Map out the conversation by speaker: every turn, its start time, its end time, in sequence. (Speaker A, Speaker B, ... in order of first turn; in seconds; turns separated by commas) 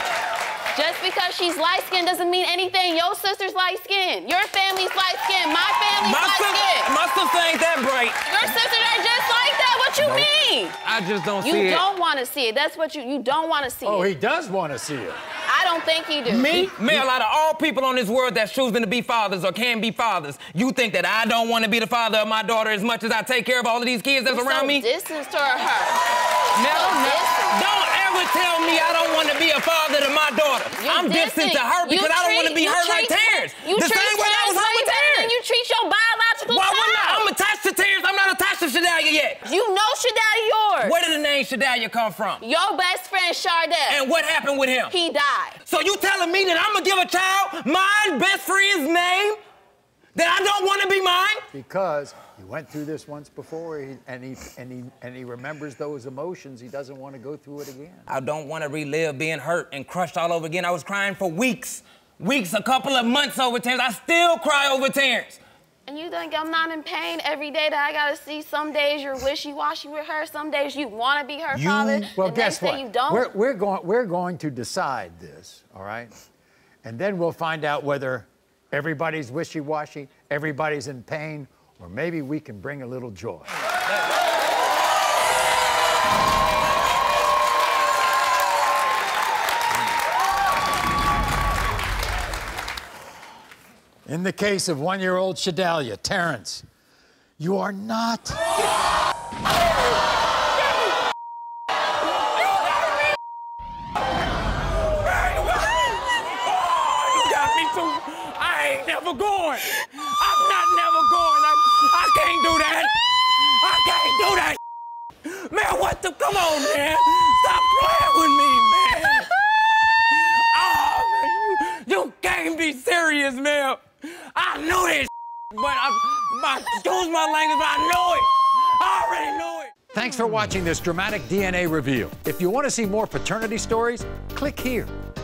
Speaker A: 0.7-6.9, Speaker B: 6.0-8.5, Speaker A: 8.2-10.8, Speaker C: 10.0-10.3, Speaker B: 10.8-11.8, Speaker A: 11.4-14.1, Speaker C: 13.8-15.2, Speaker A: 15.5-16.7, Speaker B: 16.2-24.9, Speaker A: 24.2-26.0, Speaker B: 26.5-35.3, Speaker A: 26.6-27.6, Speaker A: 30.7-37.3, Speaker B: 36.5-39.4, Speaker A: 39.4-41.0, Speaker B: 40.8-42.4, Speaker A: 42.4-44.0, Speaker B: 43.9-44.9, Speaker A: 44.9-45.6, Speaker B: 45.6-49.4, Speaker B: 50.1-51.4, Speaker C: 51.5-58.1, Speaker B: 58.1-65.4, Speaker A: 65.9-73.3, Speaker C: 71.5-76.1, Speaker C: 76.8-83.5, Speaker C: 94.0-96.6, Speaker C: 97.4-98.5, Speaker B: 104.8-114.6, Speaker B: 115.2-119.3, Speaker B: 120.1-129.7, Speaker C: 129.9-134.9